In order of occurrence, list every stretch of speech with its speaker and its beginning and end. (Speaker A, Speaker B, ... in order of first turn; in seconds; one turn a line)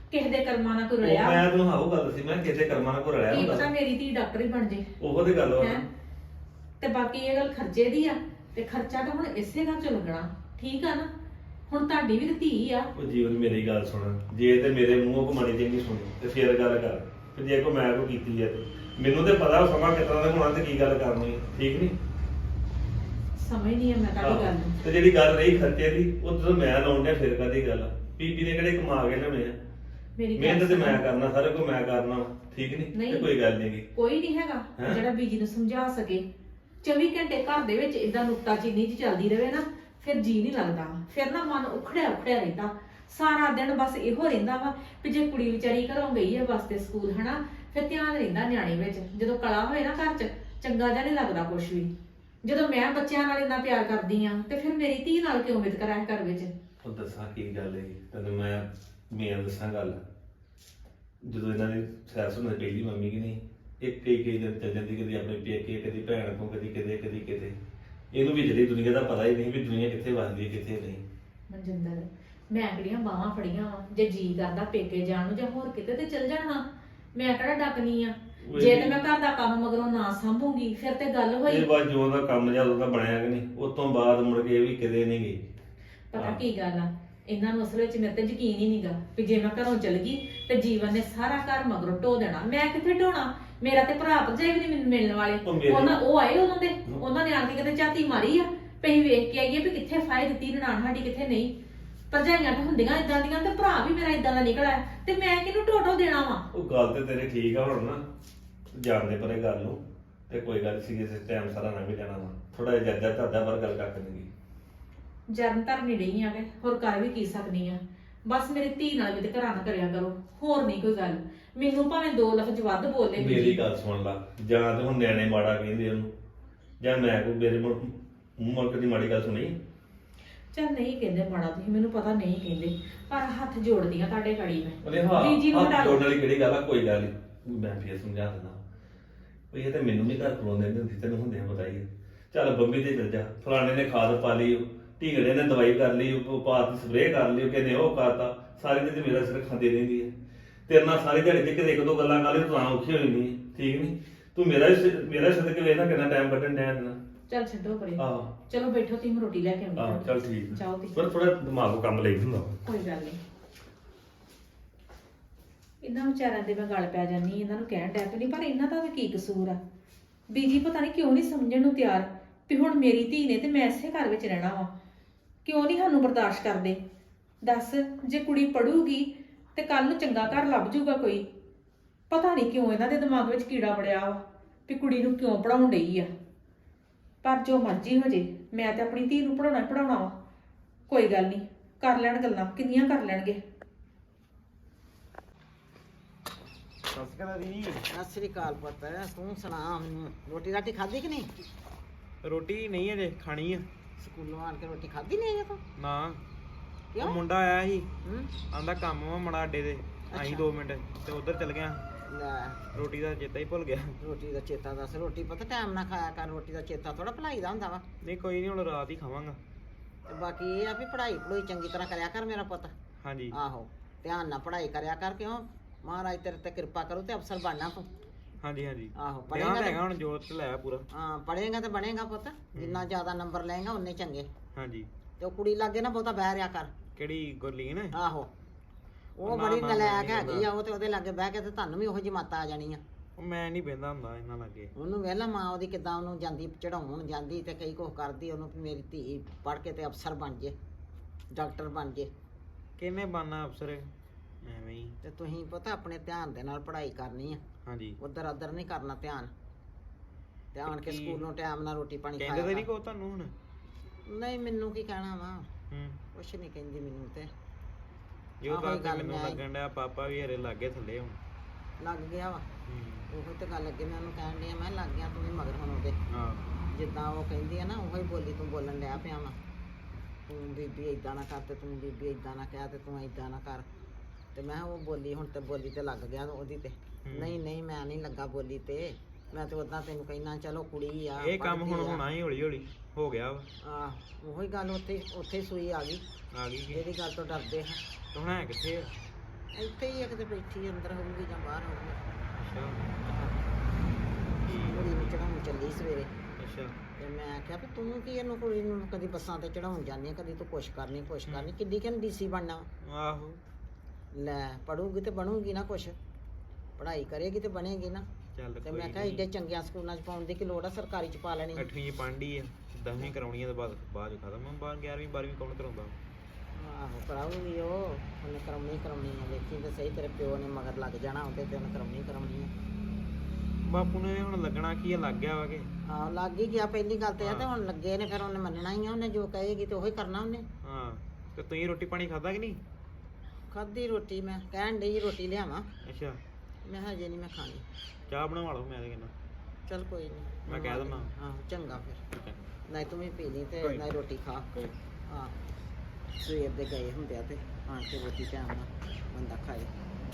Speaker A: 0.1-1.4
Speaker B: 1.0-3.7
Speaker A: 3.3-4.9
Speaker B: 5.0-5.8
Speaker A: 5.6-5.8
Speaker A: 6.8-11.1
Speaker A: 11.7-12.9
Speaker B: 12.9-22.0
Speaker A: 23.4-24.7
Speaker B: 24.2-29.6
Speaker A: 30.1-31.0
Speaker B: 30.4-33.9
Speaker A: 32.9-33.3
Speaker A: 33.9-36.2
Speaker A: 36.8-51.9
Speaker A: 52.4-56.5
Speaker B: 56.8-60.0
Speaker B: 61.2-67.6
Speaker B: 68.1-71.0
Speaker A: 71.5-76.6
Speaker A: 77.1-81.7
Speaker B: 78.4-79.0
Speaker B: 81.5-85.4
Speaker A: 86.1-101.5
Speaker B: 86.1-86.4
Speaker B: 95.4-95.9
Speaker A: 102.1-106.5
Speaker B: 106.5-108.0
Speaker B: 108.7-114.3
Speaker A: 115.3-123.6
Speaker B: 123.2-126.1
Speaker B: 126.8-129.6
Speaker A: 130.5-136.0
Speaker B: 134.8-138.6
Speaker B: 139.5-150.1
Speaker B: 150.7-157.0
Speaker A: 157.3-160.9
Speaker B: 158.0-158.3
Speaker B: 159.8-162.5
Speaker A: 162.6-163.2
Speaker A: 165.8-169.6
Speaker A: 170.3-174.7
Speaker A: 175.4-176.8
Speaker A: 177.4-181.2
Speaker A: 182.1-186.1
Speaker A: 187.2-190.1
Speaker A: 190.9-193.4
Speaker C: 196.9-197.8
Speaker D: 197.9-201.3
Speaker C: 202.2-203.7
Speaker D: 204.0-205.6
Speaker C: 205.8-206.2
Speaker D: 206.9-207.2
Speaker C: 207.0-207.9
Speaker D: 208.0-208.3
Speaker C: 208.5-211.9
Speaker D: 210.1-210.5
Speaker D: 212.1-212.7
Speaker C: 212.7-214.0
Speaker D: 214.0-217.8
Speaker C: 218.0-219.4
Speaker D: 220.1-222.7
Speaker C: 223.0-223.4
Speaker D: 223.3-227.9
Speaker C: 228.4-230.8
Speaker D: 229.0-229.8
Speaker D: 230.9-234.3
Speaker C: 232.5-232.9
Speaker C: 234.5-234.9
Speaker D: 235.2-236.7
Speaker C: 236.9-237.9
Speaker D: 237.9-238.3
Speaker D: 239.2-242.8
Speaker C: 239.2-240.5
Speaker C: 243.2-244.7
Speaker D: 244.8-250.6
Speaker D: 251.3-252.1
Speaker C: 252.8-253.9
Speaker C: 254.4-254.9
Speaker D: 255.0-257.4
Speaker C: 257.6-258.0
Speaker D: 258.0-259.3
Speaker D: 260.5-262.7
Speaker C: 260.6-261.2
Speaker C: 262.2-263.3
Speaker D: 264.1-265.5
Speaker C: 265.7-266.0
Speaker D: 266.1-267.3
Speaker C: 268.4-271.2
Speaker D: 268.4-269.4
Speaker D: 271.8-272.5
Speaker C: 272.6-273.1
Speaker D: 273.1-276.0
Speaker C: 276.1-276.5
Speaker D: 276.6-279.4
Speaker D: 280.3-283.6
Speaker D: 284.3-292.0
Speaker C: 287.1-287.4
Speaker C: 291.2-293.5
Speaker D: 293.6-296.0
Speaker C: 296.3-296.8
Speaker D: 296.7-297.8
Speaker C: 298.1-298.9
Speaker D: 299.5-302.0
Speaker C: 302.3-303.0
Speaker D: 303.0-303.4
Speaker C: 304.4-305.1
Speaker D: 304.6-306.1
Speaker C: 306.4-306.8
Speaker D: 307.0-312.7
Speaker C: 312.8-313.4
Speaker D: 314.1-315.9
Speaker D: 316.8-318.1
Speaker C: 318.3-319.2
Speaker D: 318.6-321.7
Speaker C: 321.6-326.0
Speaker D: 326.5-332.5
Speaker C: 333.6-335.7
Speaker D: 335.9-340.4
Speaker C: 337.2-337.5
Speaker C: 340.6-342.6
Speaker D: 343.5-345.7
Speaker C: 345.8-346.2
Speaker D: 346.6-347.6
Speaker C: 348.1-349.1
Speaker D: 349.7-352.0
Speaker C: 350.4-351.1
Speaker D: 352.7-355.3
Speaker C: 353.6-353.9
Speaker D: 356.2-359.7